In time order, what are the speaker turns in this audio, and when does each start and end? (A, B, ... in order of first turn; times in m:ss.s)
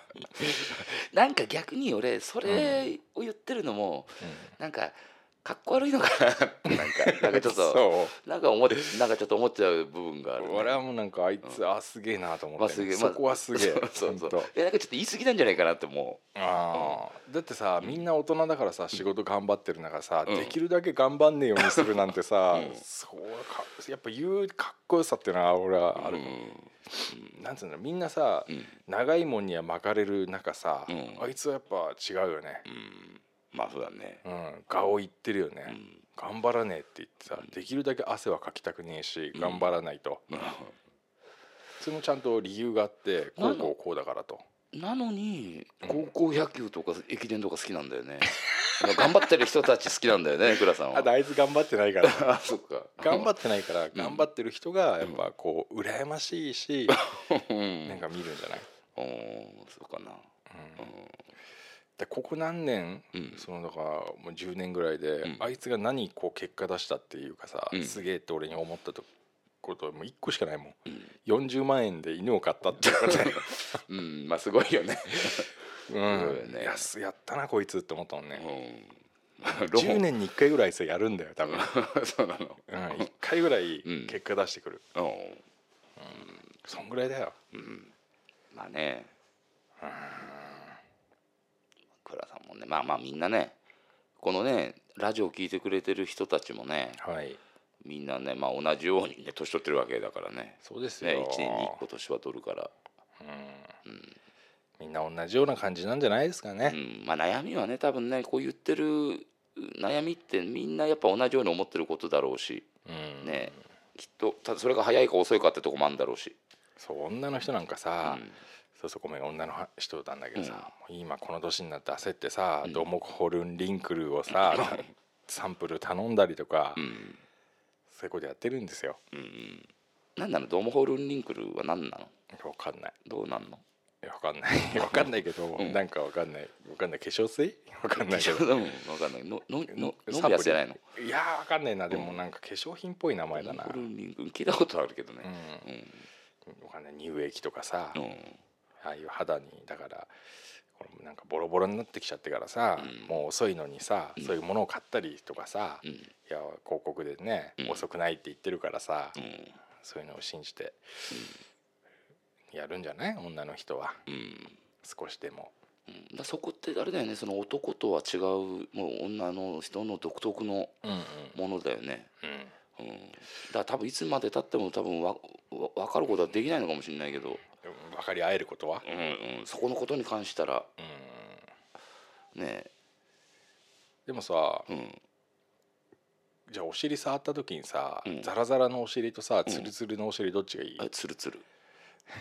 0:00.2-0:10.8 A
0:02.5-0:02.9 B
0:04.2-0:04.5 B
0:06.7-0:08.1 B
0:10.4-0:14.5 B
0:12.6-0:17.0 A
0:16.3-0:26.4 B
0:20.2-0:20.6 A
0:22.5-0:22.8 A
0:26.0-0:27.4 A
0:26.9-0:32.6 B
0:28.5-0:28.7 A
0:30.9-0:31.3 A
0:32.6-0:34.2 A
0:34.2-0:40.3 B
0:35.7-0:36.0 A
0:39.3-0:39.7 A
0:40.3-0:40.8 A
0:41.8-0:44.4 B
0:43.4-0:43.7 A
0:44.7-0:51.1 A
0:50.7-0:57.0 B
0:52.0-0:53.3 A
0:53.9-0:54.3 A
0:56.9-0:58.0 A
0:57.8-0:58.7 B
0:58.9-1:01.2 A
1:00.5-1:00.9 B
1:02.0-1:09.1 B
1:03.1-1:03.4 A
1:05.2-1:05.5 A
1:07.7-1:08.0 A
1:09.6-1:13.8 B
1:12.8-1:16.9 A
1:15.9-1:18.5 B
1:18.4-1:20.0 A
1:19.7-1:21.7 B
1:21.4-1:23.1 A
1:22.7-1:24.8 B
1:23.8-1:24.2 A
1:24.9-1:25.4 A
1:26.0-1:27.4 B
1:27.5-1:27.9 A
1:28.5-1:29.1 A
1:29.8-1:30.8 B
1:32.0-1:33.6 A
1:34.2-1:37.0 A
1:37.0-1:37.4 B
1:37.8-1:42.7 A
1:40.6-1:41.8 B
1:43.2-1:43.8 B
1:43.8-1:44.2 A
1:44.8-1:46.8 B
1:46.6-1:52.7 A
1:52.8-1:53.6 B
1:53.2-1:56.4 A
1:56.8-1:58.2 B
1:58.0-1:58.4 A
1:58.8-2:06.8 B
2:00.4-2:00.7 A
2:04.3-2:04.9 A
2:06.8-2:07.2 A
2:07.9-2:09.0 B
2:09.1-2:12.1 A
2:12.3-2:13.0 B
2:13.0-2:13.6 A
2:14.0-2:18.7 B
2:14.7-2:15.8 A
2:17.9-2:20.8 A
2:19.7-2:23.9 B
2:21.9-2:22.2 A
2:23.3-2:26.1 A
2:25.2-2:25.7 B
2:26.4-2:28.0 B
2:27.9-2:28.4 A
2:28.8-2:30.1 B
2:30.7-2:39.2 B
2:32.8-2:33.2 A
2:35.8-2:36.1 A
2:37.6-2:37.8 A
2:39.2-2:39.6 A
2:39.8-2:41.1 B
2:41.1-2:41.4 A
2:42.5-2:44.0 B
2:44.1-2:44.6 A
2:44.8-2:45.5 B
2:45.9-2:50.8 A
2:50.8-2:51.4 B
2:51.3-2:52.1 A
2:52.2-2:52.5 B
2:52.8-2:57.4 A
2:57.6-2:58.8 B
2:58.8-3:00.7 A
3:00.8-3:01.5 B
3:02.3-3:02.7 A
3:04.0-3:04.7 B
3:04.7-3:05.0 A
3:06.5-3:10.9 B
3:08.0-3:08.3 A
3:09.4-3:09.7 A
3:10.8-3:11.4 A